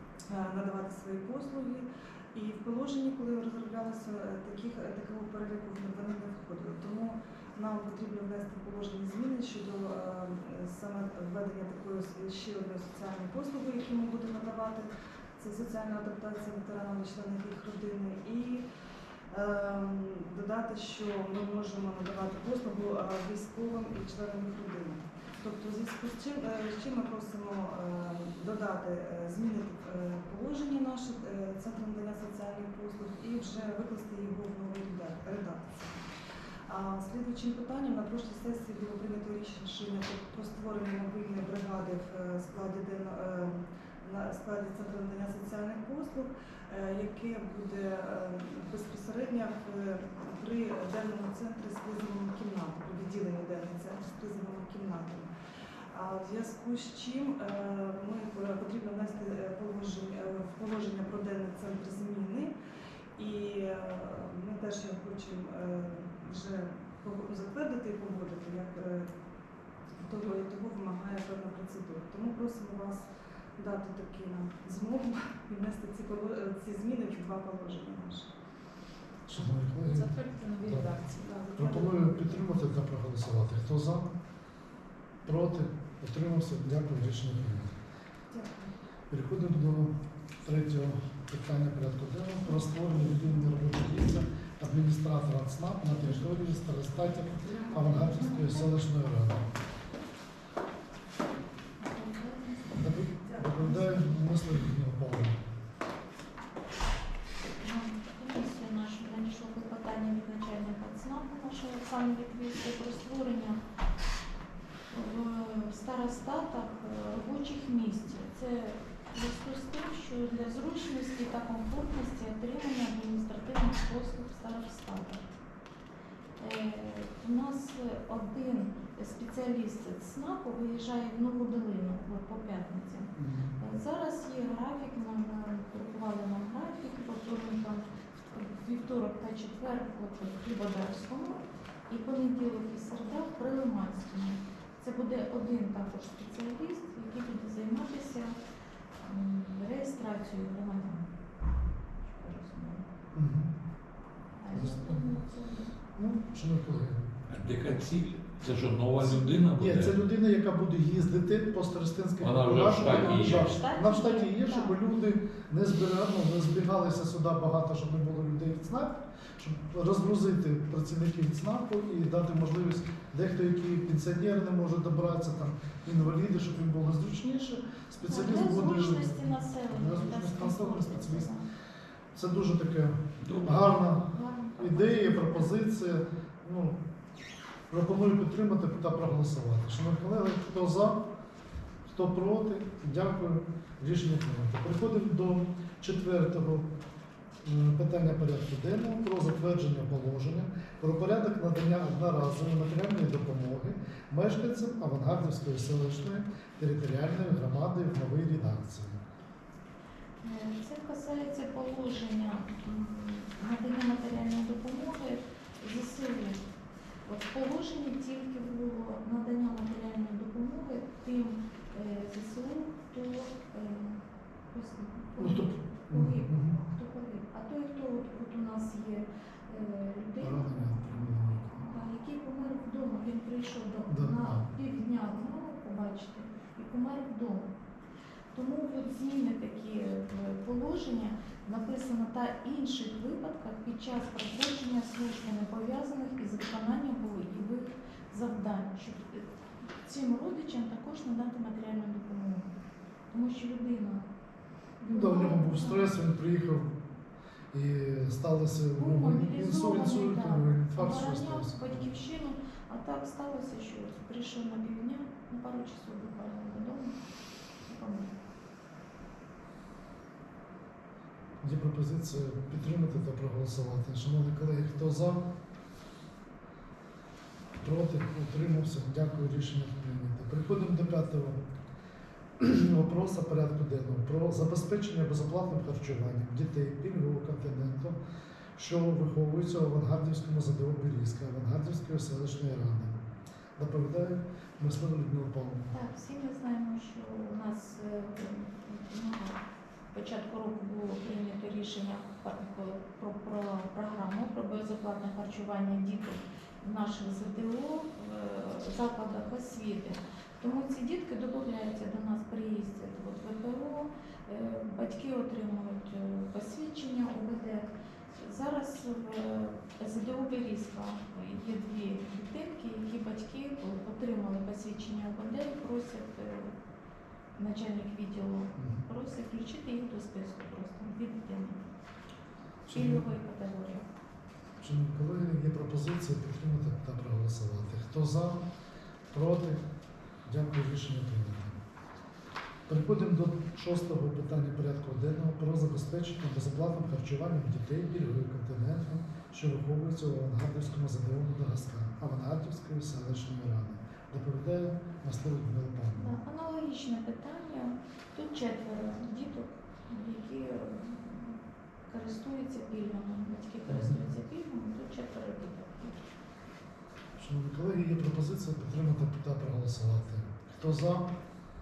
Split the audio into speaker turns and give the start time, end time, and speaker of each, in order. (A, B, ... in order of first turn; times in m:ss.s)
0:00.3-0:18.6 A
0:19.3-0:35.9 A
0:36.7-0:55.3 A
0:55.9-1:02.5 A
1:03.2-1:09.1 A
1:10.0-1:13.0 A
1:13.6-1:18.3 A
1:19.3-1:21.0 B
1:19.8-1:21.2 C
1:21.2-1:22.4 A
1:21.5-1:24.1 B
1:25.2-1:27.7 B
1:28.3-1:28.7 A
1:29.1-1:39.5 B
1:37.7-1:38.7 C
1:41.8-1:44.2 C
1:42.7-1:45.4 B
1:47.6-1:53.6 C
1:54.9-2:05.2 C
2:06.4-2:28.4 C
2:13.2-2:13.5 B
2:29.0-2:31.1 C
2:32.0-2:32.8 C
2:33.1-2:33.5 B
2:34.4-2:35.7 C
2:34.5-2:35.0 B
2:36.0-2:37.0 B
2:37.3-2:40.0 D
2:39.0-3:01.3 B
2:42.2-2:43.5 D
2:42.9-2:44.8 C
2:58.0-3:01.4 C
3:02.1-3:06.8 B
3:03.2-3:03.6 D
3:04.0-3:05.6 C
3:07.7-3:11.0 B
3:11.8-3:16.7 B
3:17.4-3:29.0 B
3:30.2-3:36.4 C
3:37.0-3:57.5 C
3:45.2-3:46.6 B
3:50.2-3:51.7 B
3:53.9-3:54.5 B
3:58.3-4:09.3 C
4:09.8-4:12.5 C
4:13.1-4:14.0 C
4:14.8-4:15.9 C
4:14.8-4:16.8 B
4:17.5-4:21.9 B
4:18.8-4:27.0 C
4:27.6-4:28.1 C
4:31.4-4:35.2 B
4:37.6-4:41.4 B
4:42.4-4:48.0 B
4:48.6-4:53.0 B
4:53.6-4:55.7 B
4:55.7-4:59.4 C
4:59.9-5:26.5 C
5:27.3-5:31.6 C
5:28.6-5:28.8 B
5:32.7-5:33.1 B
5:32.7-5:33.8 C
5:34.6-5:38.4 B
5:39.1-5:39.6 B
5:40.2-5:41.6 B
5:42.7-5:56.2 B
5:55.9-6:06.1 C
6:03.7-6:04.0 B
6:07.2-6:11.1 B